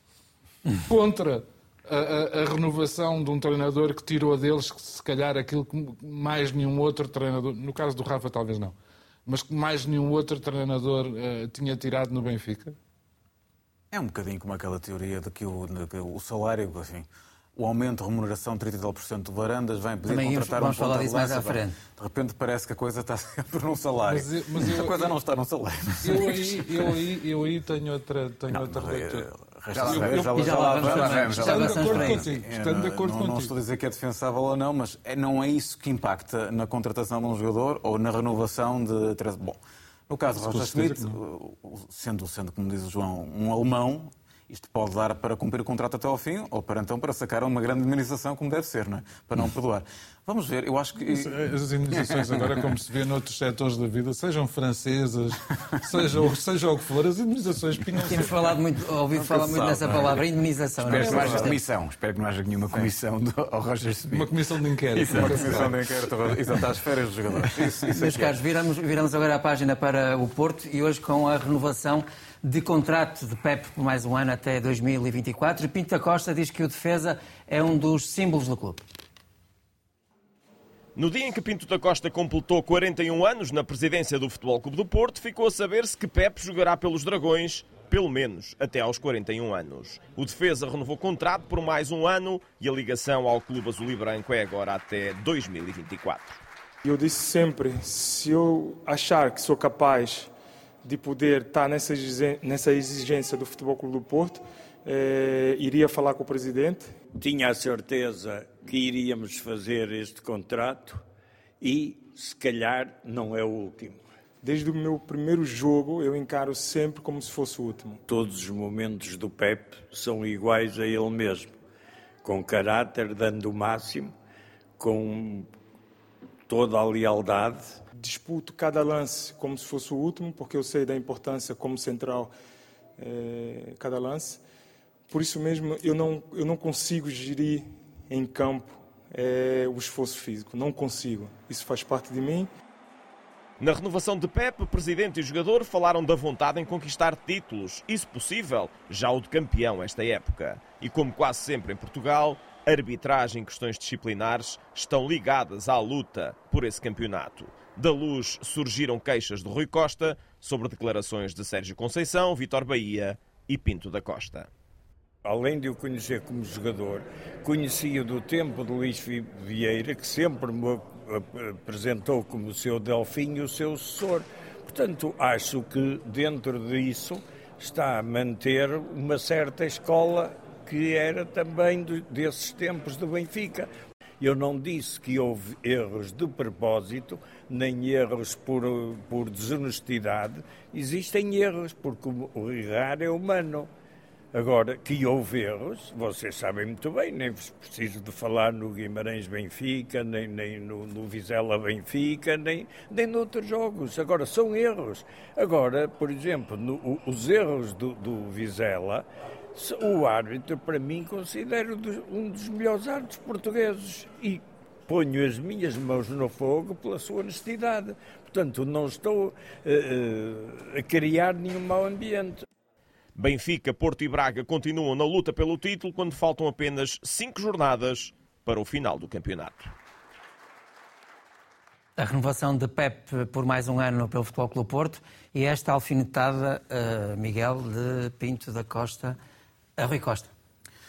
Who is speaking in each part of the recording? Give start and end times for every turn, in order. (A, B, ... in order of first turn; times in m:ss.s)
0:00.8-0:08.7 A
0:09.2-0:12.8 A
0:13.9-0:26.9 B
0:20.0-0:21.8 C
0:24.1-0:25.2 A
0:26.0-0:29.3 A
0:28.5-0:52.7 B
0:29.7-0:32.2 D
0:29.8-0:33.5 A
0:30.4-0:32.2 C
0:40.4-0:41.2 A
0:51.0-0:58.4 A
0:58.0-1:01.6 C
0:59.1-1:00.2 B
1:00.8-1:04.3 D
1:00.9-1:01.4 B
1:04.1-1:05.7 A
1:04.9-1:05.8 D
1:05.0-1:08.4 B
1:07.6-1:07.8 D
1:07.9-1:18.8 C
1:21.0-1:36.4 E
1:36.8-1:40.3 F
1:40.8-1:46.9 F
1:47.2-1:51.0 G
1:51.6-1:54.0 G
1:54.4-1:58.0 F
1:58.1-2:01.5 G
2:02.2-2:04.1 G
2:04.8-2:05.5 G
2:06.5-2:07.8 G
2:08.0-2:12.3 F
2:13.0-2:14.4 F
2:15.1-2:22.5 F
2:23.6-2:44.5 E
2:45.2-3:03.7 G
3:04.2-3:13.7 G
3:14.3-3:42.4 G
3:43.2-3:49.7 E
3:52.0-3:59.2 C
3:59.8-4:00.3 C